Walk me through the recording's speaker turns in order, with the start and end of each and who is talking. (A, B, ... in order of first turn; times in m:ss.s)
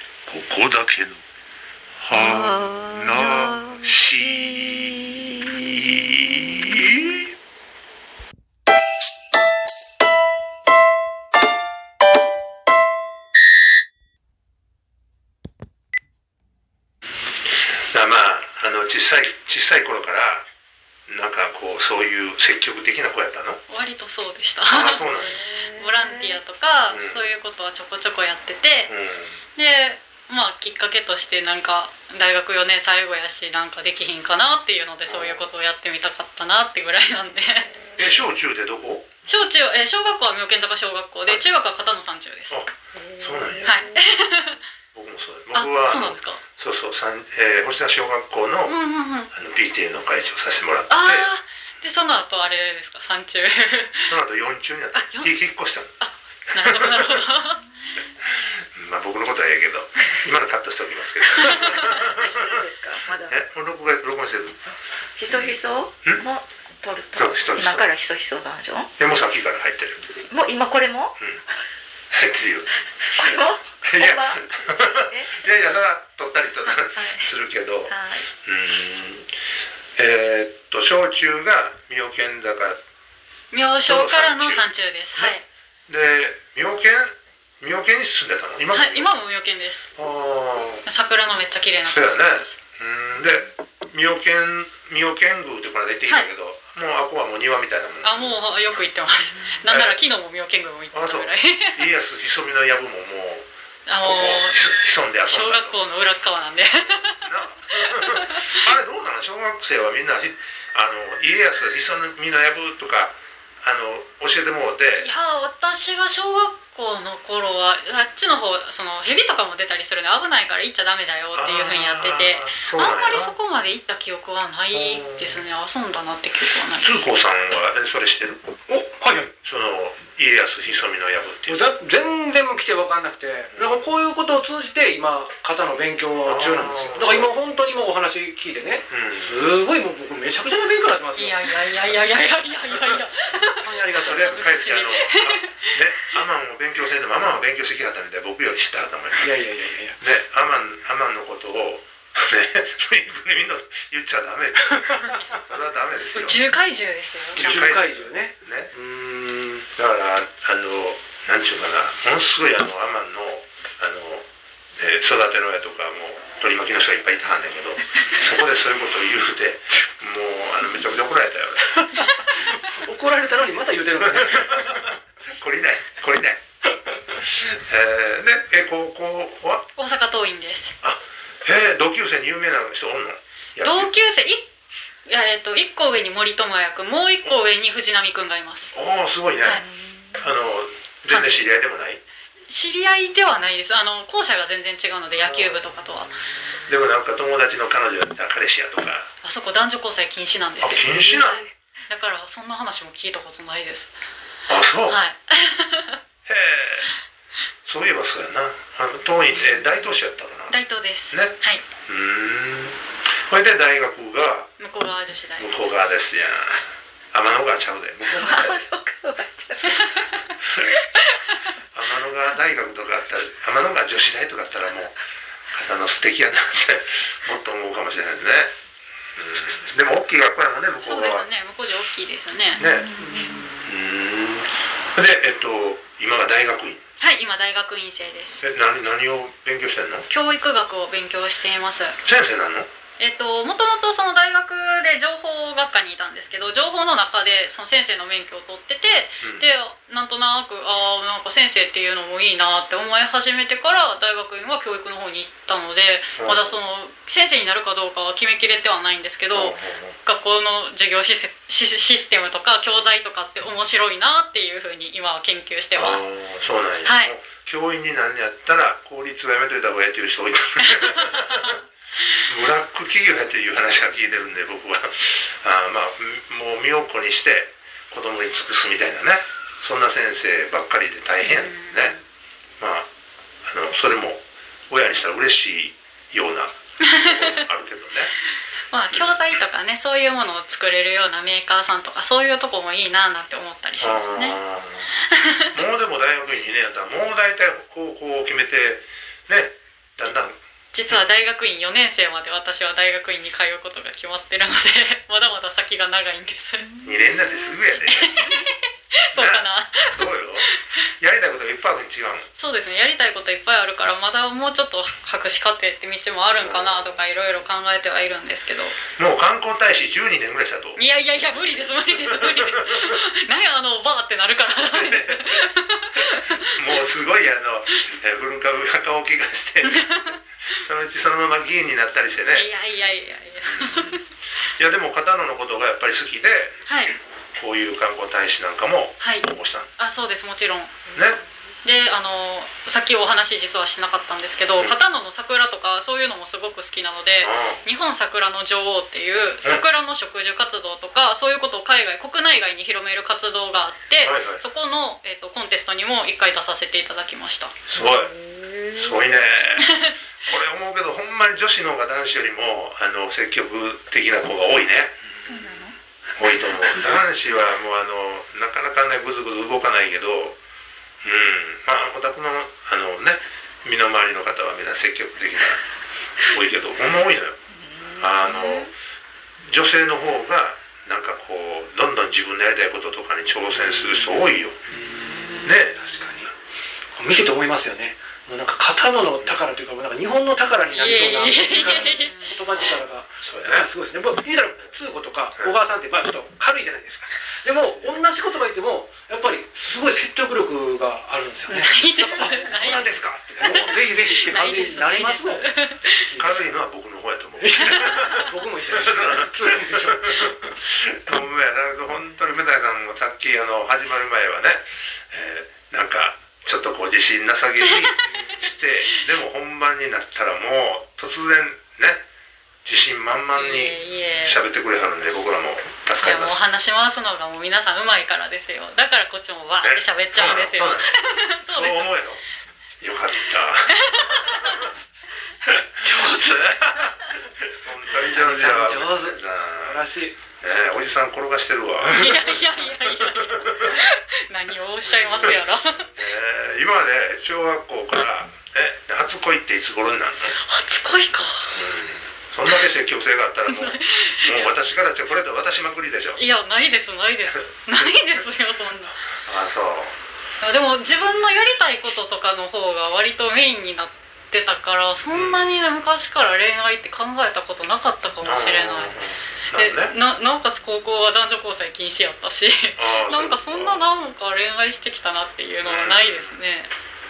0:00.2-0:01.2 A
0:02.0-0:07.2 A
0:02.1-0:03.8 B
0:17.5-0:20.4 A
0:21.1-0:23.6 A
0:23.7-0:28.9 C
0:24.7-0:25.4 A
0:26.9-0:27.3 A
0:28.9-0:29.4 A
0:29.5-0:37.9 C
0:35.0-0:35.5 A
0:38.0-0:39.1 A
0:39.2-0:42.6 C
0:42.5-0:43.8 A
0:43.6-0:44.6 C
0:44.9-0:48.8 A
0:45.5-0:46.4 C
0:48.6-0:49.3 C
0:49.3-0:51.3 A
0:50.9-0:54.2 C
0:54.1-0:55.9 A
0:54.9-0:55.4 C
0:56.0-0:57.7 C
0:56.6-0:57.2 A
0:58.7-1:02.6 A
1:01.9-1:03.4 B
1:03.3-1:04.7 A
1:05.2-1:08.9 B
1:05.3-1:06.2 A
1:07.1-1:07.9 A
1:09.0-1:10.0 A
1:10.3-1:11.2 B
1:12.1-1:12.7 A
1:13.2-1:14.4 B
1:13.8-1:19.3 A
1:15.1-1:15.4 B
1:16.6-1:17.3 B
1:17.9-1:18.3 B
1:20.0-1:22.8 A
1:23.5-1:25.4 C
1:23.8-1:29.1 A
1:28.7-1:29.9 C
1:30.0-1:30.8 A
1:30.8-1:32.5 C
1:31.8-1:38.4 A
1:36.0-1:36.3 C
1:38.0-1:41.8 C
1:39.7-1:40.0 A
1:40.9-1:43.4 A
1:43.8-1:44.6 C
1:44.0-1:45.8 A
1:45.2-1:48.7 C
1:47.2-1:55.1 A
1:54.9-2:07.1 C
2:01.3-2:03.4 A
2:04.7-2:05.4 A
2:06.8-2:08.5 A
2:08.7-2:09.3 D
2:09.4-2:11.6 A
2:11.5-2:21.8 D
2:13.5-2:13.8 A
2:16.2-2:17.3 A
2:18.9-2:19.4 A
2:21.2-2:25.7 C
2:23.6-2:24.5 D
2:24.0-2:29.4 A
2:29.2-2:30.0 D
2:30.0-2:36.4 A
2:36.1-2:37.8 C
2:37.3-2:39.7 D
2:37.4-2:38.7 A
2:39.8-2:44.2 A
2:44.8-2:52.0 A
2:52.5-2:54.8 D
2:54.1-2:56.4 A
2:57.1-2:59.6 A
2:59.8-3:00.7 C
3:00.8-3:03.9 A
3:03.6-3:04.5 C
3:05.0-3:08.7 C
3:08.7-3:09.6 A
3:09.6-3:10.3 B
3:10.2-3:12.0 A
3:11.1-3:11.5 C
3:12.5-3:16.2 C
3:15.2-3:15.7 A
3:16.7-3:19.1 A
3:19.2-3:23.9 C
3:20.6-3:21.4 A
3:24.5-3:25.0 A
3:24.8-3:26.0 C
3:26.2-3:26.9 A
3:27.6-3:30.6 A
3:30.5-3:31.6 C
3:31.9-3:34.5 A
3:34.6-3:35.5 C
3:35.4-3:38.6 A
3:38.1-3:40.1 B
3:41.1-3:41.5 C
3:41.7-3:45.0 A
3:45.5-3:48.5 A
3:49.2-3:51.3 A
3:50.8-3:52.6 C
3:52.6-3:53.0 A
3:52.6-3:53.5 B
3:53.0-3:53.5 D
3:53.6-3:56.8 A
3:57.0-3:58.4 C
3:58.4-4:00.1 A
4:00.1-4:02.0 C
4:02.0-4:02.7 A
4:03.0-4:26.0 C
4:09.2-4:09.4 A
4:16.2-4:16.6 A
4:19.3-4:20.0 A
4:25.8-4:31.6 A
4:26.8-4:27.1 C
4:32.3-4:42.0 A
4:41.2-4:42.0 C
4:42.6-4:42.9 A
4:43.4-4:48.1 A
4:46.8-4:47.4 C
4:48.7-4:54.4 C
4:48.9-4:49.2 A
4:53.8-4:54.9 A
4:55.0-4:55.6 C
4:55.5-5:00.4 A
5:00.7-5:06.7 C
5:06.8-5:08.3 A
5:07.6-5:10.5 C
5:09.1-5:12.3 A
5:12.4-5:18.8 C
5:16.4-5:17.0 A
5:19.0-5:20.8 A
5:20.8-5:26.6 C
5:22.1-5:22.9 A
5:24.7-5:25.3 A
5:26.4-5:32.5 A
5:29.6-5:30.2 C
5:32.3-5:34.0 C
5:33.4-5:34.0 A
5:34.6-5:36.6 A
5:36.6-5:37.0 C
5:37.4-5:39.7 A
5:39.0-5:40.8 C
5:40.9-5:41.2 A
5:41.6-5:57.6 C
5:47.2-5:47.6 A
5:54.0-5:54.4 A
5:57.7-5:58.1 A
5:58.2-5:58.8 B
5:58.7-6:05.1 A
5:59.6-5:59.9 C
6:05.3-6:05.6 C
6:06.2-6:10.4 A
6:11.0-6:15.6 A
6:16.2-6:18.7 A
6:17.5-6:18.7 B
6:19.4-6:24.6 A
6:24.7-6:26.3 D
6:25.0-6:25.5 B
6:25.4-6:25.8 A
6:26.9-6:45.4 D
6:30.7-6:32.6 C
6:33.2-6:33.7 A
6:41.5-6:46.0 C
6:43.4-6:43.7 A
6:46.0-6:46.5 D
6:46.0-7:02.0 A
6:47.4-6:50.5 D
6:57.6-6:58.2 C
7:02.6-7:06.4 A
7:03.3-7:04.4 C
7:06.0-7:11.9 C
7:09.6-7:12.2 A
7:12.8-7:14.6 A
7:13.7-7:14.6 C
7:15.4-7:19.8 A
7:15.8-7:16.8 D
7:18.0-7:20.2 D
7:20.4-7:22.4 A
7:21.8-7:25.9 C
7:23.0-7:23.8 A
7:24.8-7:30.4 A
7:30.4-7:31.6 C
7:31.5-7:36.2 A
7:33.5-7:34.6 C
7:36.1-7:39.0 C
7:39.2-7:40.0 A
7:40.4-7:48.9 C
7:45.1-7:45.4 A
7:48.2-7:49.9 A
7:49.5-7:56.7 C
7:52.8-7:53.9 A
7:55.6-7:56.4 A